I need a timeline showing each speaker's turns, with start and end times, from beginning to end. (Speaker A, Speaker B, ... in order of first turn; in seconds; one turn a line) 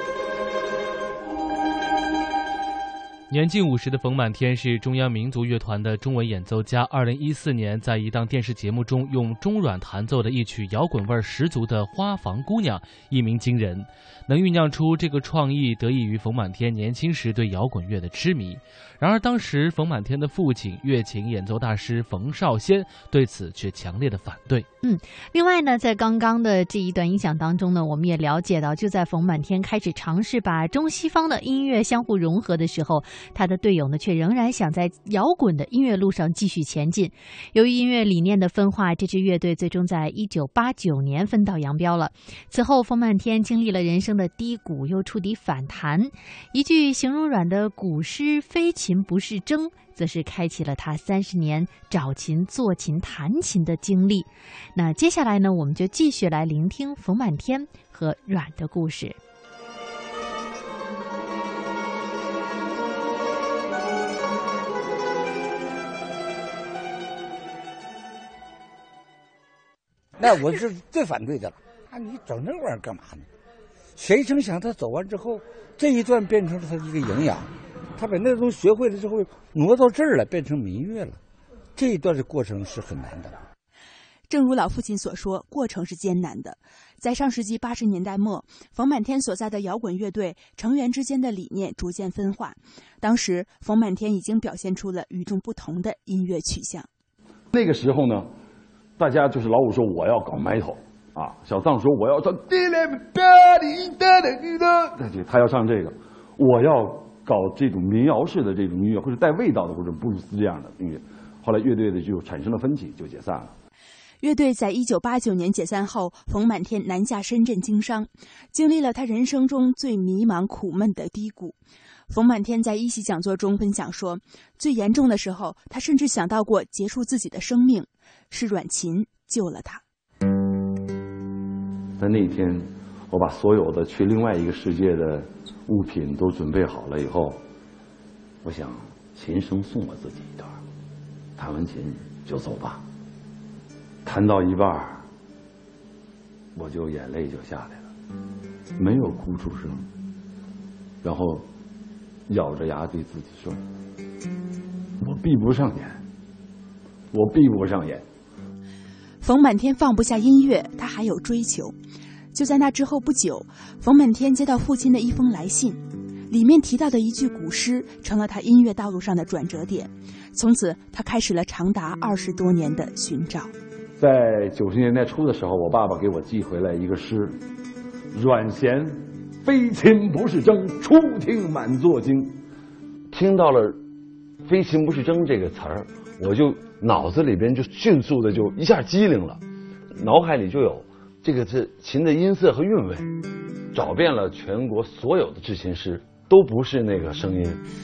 Speaker A: 3.3-24.7
Speaker B: 24.8-59.2
Speaker C: 70.2-73.3
Speaker C: 74.0-81.2
Speaker C: 81.8-83.4
Speaker D: 84.3-96.9
Speaker E: 97.5-98.3
Speaker E: 99.0-113.5
Speaker D: 114.2-121.6
Speaker D: 122.1-129.8
Speaker E: 132.0-137.4
Speaker E: 138.4-140.6
Speaker E: 141.4-142.8
Speaker E: 144.0-145.0
Speaker E: 146.6-147.8
Speaker E: 148.8-149.8
Speaker E: 151.0-151.4
Speaker E: 152.3-153.6
Speaker E: 155.0-156.0
Speaker E: 157.1-158.0
Speaker D: 159.2-161.7
Speaker D: 162.3-173.5
Speaker E: 174.0-177.3
Speaker E: 178.1-182.4
Speaker E: 183.1-183.7
Speaker E: 184.5-189.4
Speaker E: 190.0-193.1
Speaker E: 193.7-197.6